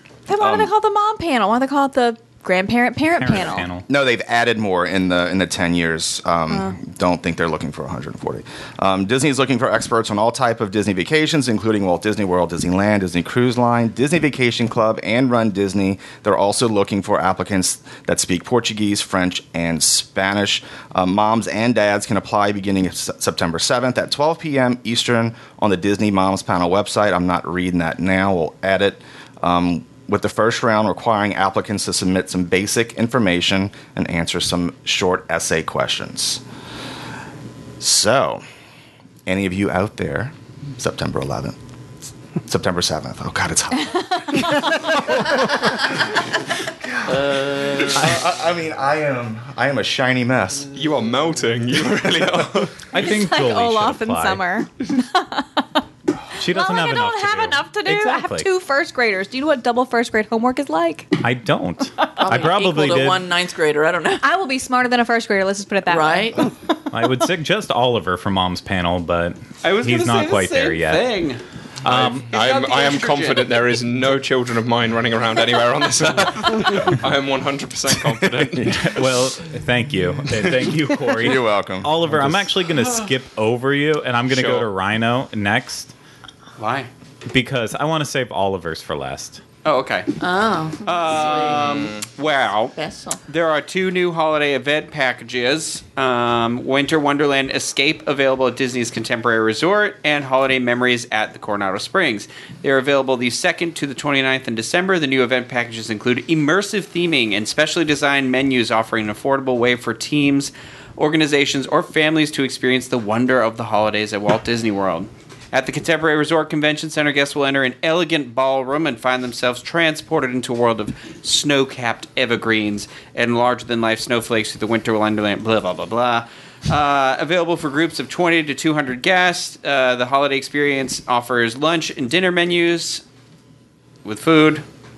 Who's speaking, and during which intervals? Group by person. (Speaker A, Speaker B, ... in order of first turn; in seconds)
Speaker A: 0.3-3.7, 43.9-44.9, 52.9-55.8, 56.4-61.1, 62.0-62.5, 64.2-66.5
Speaker B: 0.4-0.7, 3.9-36.4, 37.8-38.4, 39.2-41.6, 42.4-46.2, 46.8-50.8, 51.8-52.7, 78.1-78.9, 81.1-82.5
Speaker C: 3.2-3.9, 52.9-54.4, 56.4-58.5, 61.2-63.2, 66.9-71.1, 71.8-72.3, 78.6-85.9, 87.3-89.4
Speaker D: 47.1-48.1, 62.2-64.3, 65.8-66.5, 90.2-91.9, 92.7-93.2
Speaker E: 50.7-52.8, 71.9-78.8, 84.3-84.7, 91.7-92.0
Speaker F: 69.6-71.4, 72.3-73.6, 86.6-86.9, 89.6-90.1, 90.8-92.7, 93.3-133.0, 134.0-134.6